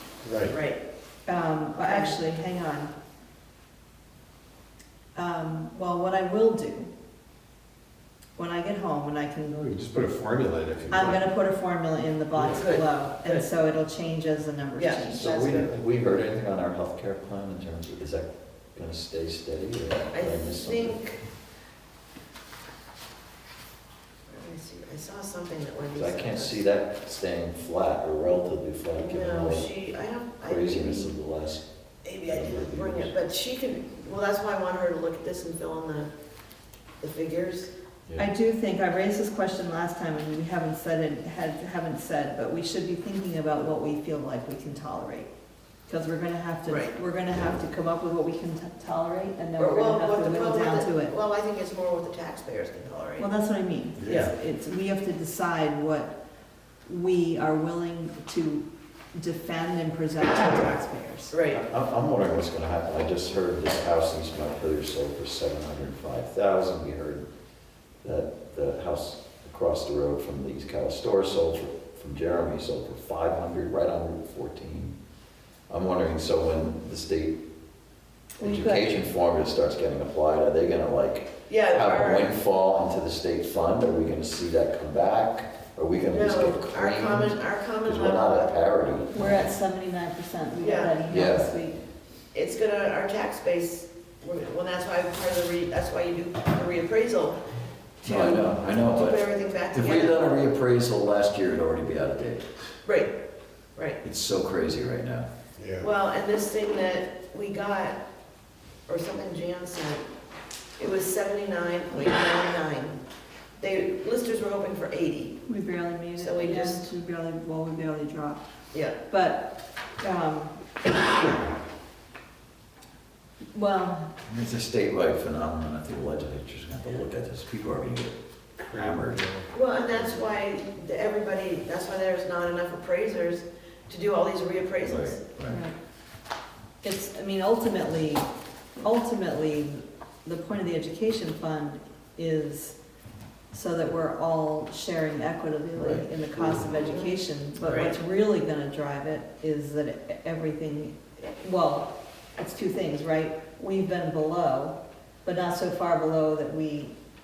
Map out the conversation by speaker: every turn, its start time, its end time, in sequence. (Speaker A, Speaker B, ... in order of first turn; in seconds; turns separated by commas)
Speaker A: 0.2-0.6, Speaker B: 0.5-0.8, Speaker C: 1.2-2.9, Speaker B: 1.8-2.2, Speaker C: 5.1-6.9, Speaker C: 8.3-9.8, Speaker A: 9.6-11.2, Speaker C: 10.9-15.4, Speaker B: 12.4-13.4, Speaker B: 14.8-15.8, Speaker D: 15.1-21.0, Speaker B: 20.1-21.2, Speaker B: 24.3-26.6, Speaker D: 25.9-29.7, Speaker B: 28.9-31.1, Speaker D: 30.4-31.6, Speaker B: 32.0-36.1, Speaker D: 32.2-33.1, Speaker B: 37.0-37.7, Speaker C: 38.1-45.3, Speaker C: 45.9-51.1, Speaker B: 46.6-47.0, Speaker B: 49.6-53.3, Speaker C: 53.2-56.1, Speaker A: 54.0-54.3, Speaker B: 54.1-54.3, Speaker C: 56.9-61.3, Speaker B: 61.3-61.6, Speaker D: 61.5-67.2, Speaker D: 68.0-74.9, Speaker D: 75.7-77.4, Speaker C: 78.4-78.9, Speaker D: 78.4-89.5, Speaker B: 81.5-82.3, Speaker B: 86.1-88.5, Speaker C: 89.1-91.8, Speaker B: 90.6-91.0, Speaker D: 91.1-91.5, Speaker B: 92.3-97.4, Speaker B: 98.0-100.4, Speaker D: 98.0-102.5, Speaker B: 102.8-103.1, Speaker D: 104.0-105.3, Speaker A: 105.6-105.9, Speaker B: 105.8-108.0, Speaker B: 108.9-110.0, Speaker B: 110.8-113.0, Speaker B: 113.6-115.4, Speaker C: 115.5-118.4, Speaker B: 116.2-116.9, Speaker C: 119.0-120.6, Speaker C: 123.5-124.1, Speaker D: 124.2-129.2, Speaker A: 128.7-130.1, Speaker B: 129.5-135.2, Speaker D: 134.8-135.6, Speaker C: 135.5-135.7, Speaker C: 136.8-138.3, Speaker C: 138.8-142.8, Speaker C: 143.5-156.9, Speaker D: 145.8-146.0, Speaker B: 146.7-147.1, Speaker B: 147.6-147.9